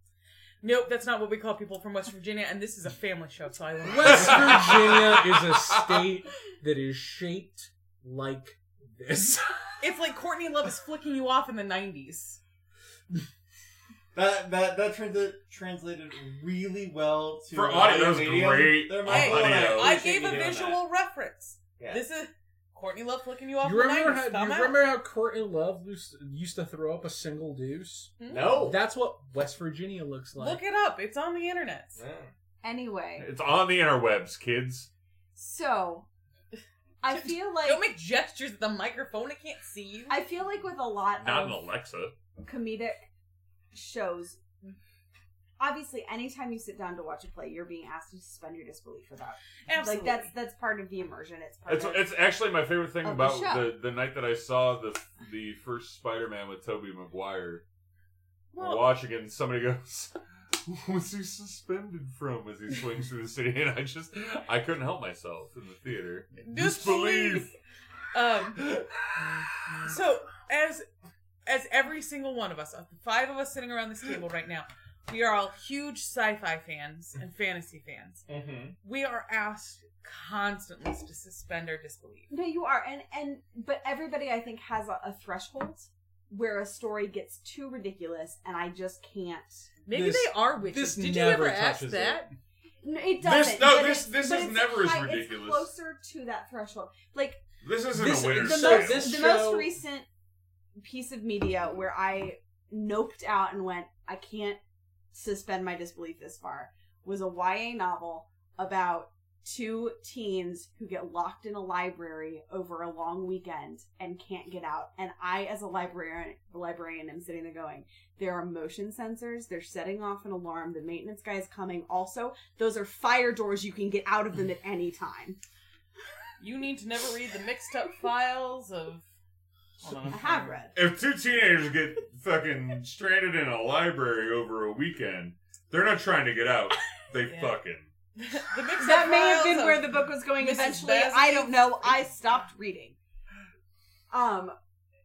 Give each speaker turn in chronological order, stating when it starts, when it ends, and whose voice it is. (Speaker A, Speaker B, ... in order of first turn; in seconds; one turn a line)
Speaker A: 0.6-4.7
Speaker B: 3.8-9.8
Speaker C: 4.0-5.9
Speaker A: 9.8-12.4
Speaker D: 14.1-20.8
Speaker C: 17.5-20.0
Speaker A: 19.0-24.8
Speaker B: 23.6-30.6
Speaker A: 28.2-28.5
Speaker D: 28.3-28.8
Speaker A: 30.4-32.0
Speaker D: 32.0-32.3
Speaker E: 32.6-33.3
Speaker C: 33.2-34.9
Speaker E: 35.4-36.1
Speaker E: 37.0-37.8
Speaker A: 37.1-40.2
Speaker E: 40.1-41.6
Speaker C: 41.2-42.1
Speaker E: 42.4-43.1
Speaker E: 43.7-44.4
Speaker E: 45.6-52.1
Speaker A: 49.7-50.3
Speaker C: 51.7-57.6
Speaker E: 53.0-53.7
Speaker A: 58.5-58.8
Speaker C: 58.5-67.5
Speaker A: 66.3-67.5
Speaker A: 68.1-68.6
Speaker A: 69.8-70.9
Speaker A: 71.5-78.2
Speaker D: 78.3-78.7
Speaker A: 78.8-82.3
Speaker E: 82.3-89.7
Speaker A: 89.8-92.3
Speaker B: 89.9-92.3
Speaker E: 92.8-97.4
Speaker C: 93.2-95.7
Speaker C: 97.6-99.2
Speaker B: 97.9-99.7
Speaker E: 98.4-100.1
Speaker E: 100.8-104.6
Speaker E: 105.1-125.4
Speaker A: 126.4-129.0
Speaker A: 129.8-130.6
Speaker E: 130.1-130.7
Speaker C: 130.7-137.9
Speaker A: 137.2-137.6
Speaker A: 138.2-142.0
Speaker E: 138.8-143.0
Speaker E: 144.1-144.5